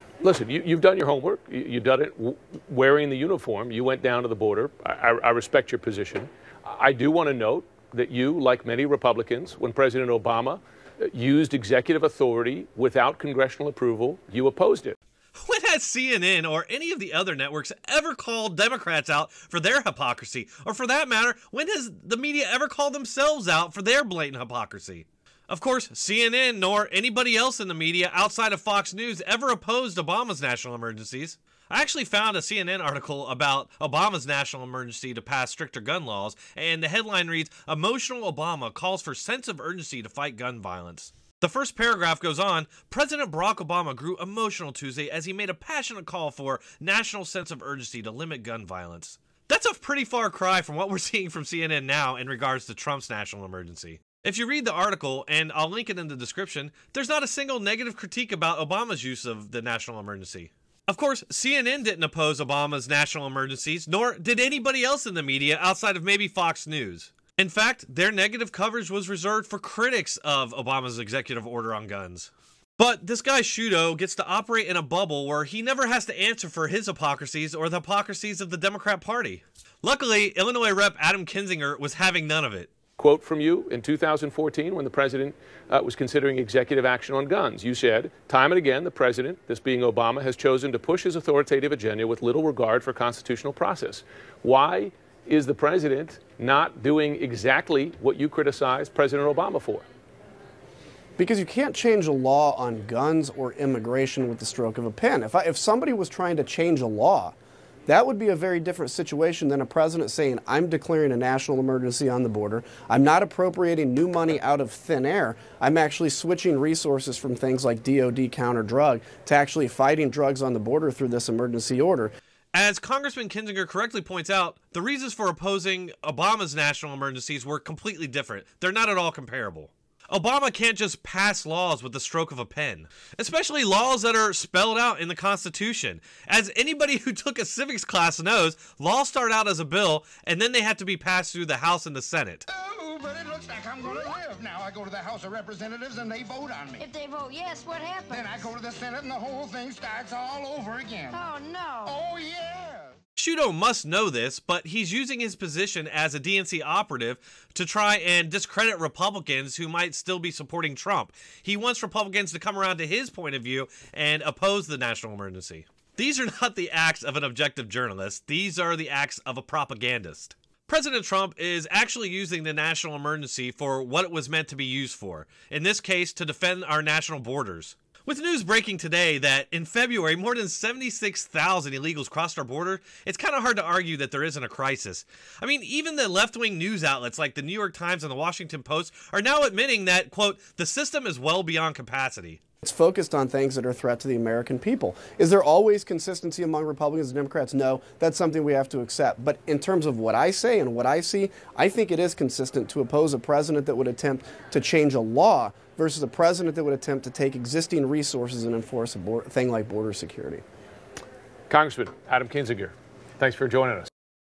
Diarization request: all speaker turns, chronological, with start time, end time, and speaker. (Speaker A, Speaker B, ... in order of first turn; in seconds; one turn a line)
Speaker A: 0.2-15.0
Speaker B: 15.4-82.7
Speaker A: 83.0-99.9
Speaker C: 101.2-107.3
Speaker C: 107.9-122.1
Speaker B: 122.5-142.5
Speaker D: 142.5-146.9
Speaker E: 146.8-148.5
Speaker D: 148.1-151.2
Speaker E: 151.1-152.0
Speaker D: 151.8-152.9
Speaker B: 153.2-192.4
Speaker C: 192.6-210.4
Speaker A: 211.5-213.9